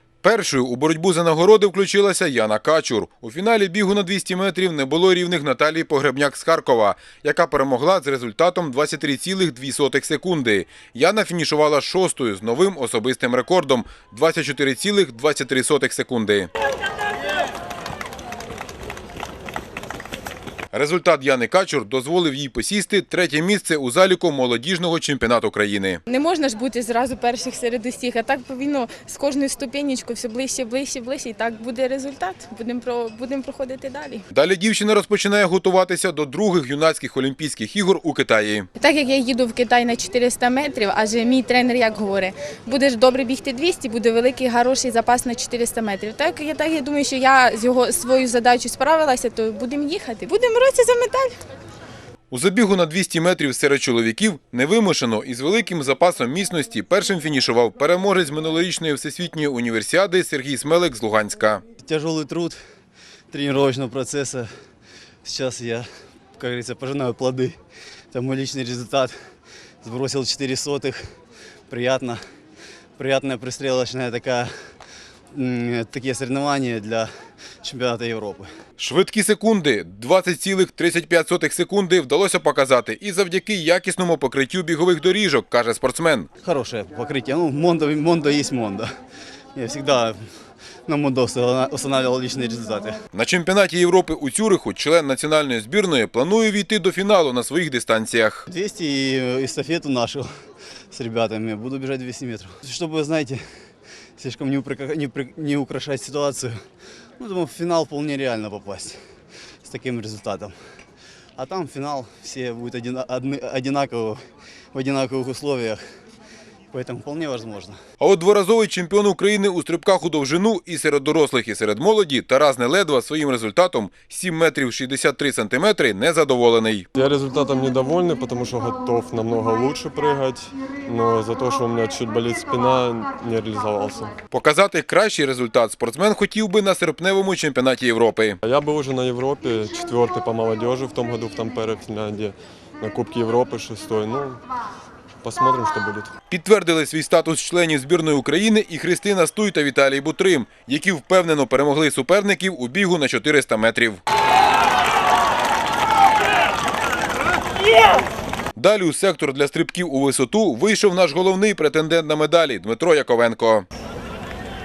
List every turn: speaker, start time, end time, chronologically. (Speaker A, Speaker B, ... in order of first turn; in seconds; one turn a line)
Speaker A: 0.2-16.5
Speaker A: 20.7-26.0
Speaker B: 26.1-34.2
Speaker A: 34.3-38.7
Speaker B: 38.8-51.3
Speaker A: 52.3-61.6
Speaker C: 61.8-62.6
Speaker C: 63.3-64.5
Speaker C: 65.2-65.8
Speaker C: 66.4-67.6
Speaker C: 68.1-69.1
Speaker C: 69.8-71.0
Speaker C: 71.7-72.2
Speaker C: 73.0-74.5
Speaker C: 75.3-77.1
Speaker C: 77.6-78.5
Speaker A: 78.8-86.3
Speaker C: 86.4-88.9
Speaker C: 89.6-90.2
Speaker C: 90.9-93.0
Speaker A: 93.1-98.4
Speaker C: 98.5-100.3
Speaker C: 100.9-103.4
Speaker C: 104.2-106.5
Speaker C: 107.2-109.0
Speaker C: 109.6-110.5
Speaker C: 111.4-114.2
Speaker C: 114.7-115.8
Speaker C: 116.7-117.8
Speaker A: 118.0-126.9
Speaker D: 126.9-134.2
Speaker A: 134.3-138.4
Speaker D: 138.4-144.4
Speaker D: 145.2-146.1
Speaker A: 146.3-154.0
Speaker A: 158.6-163.7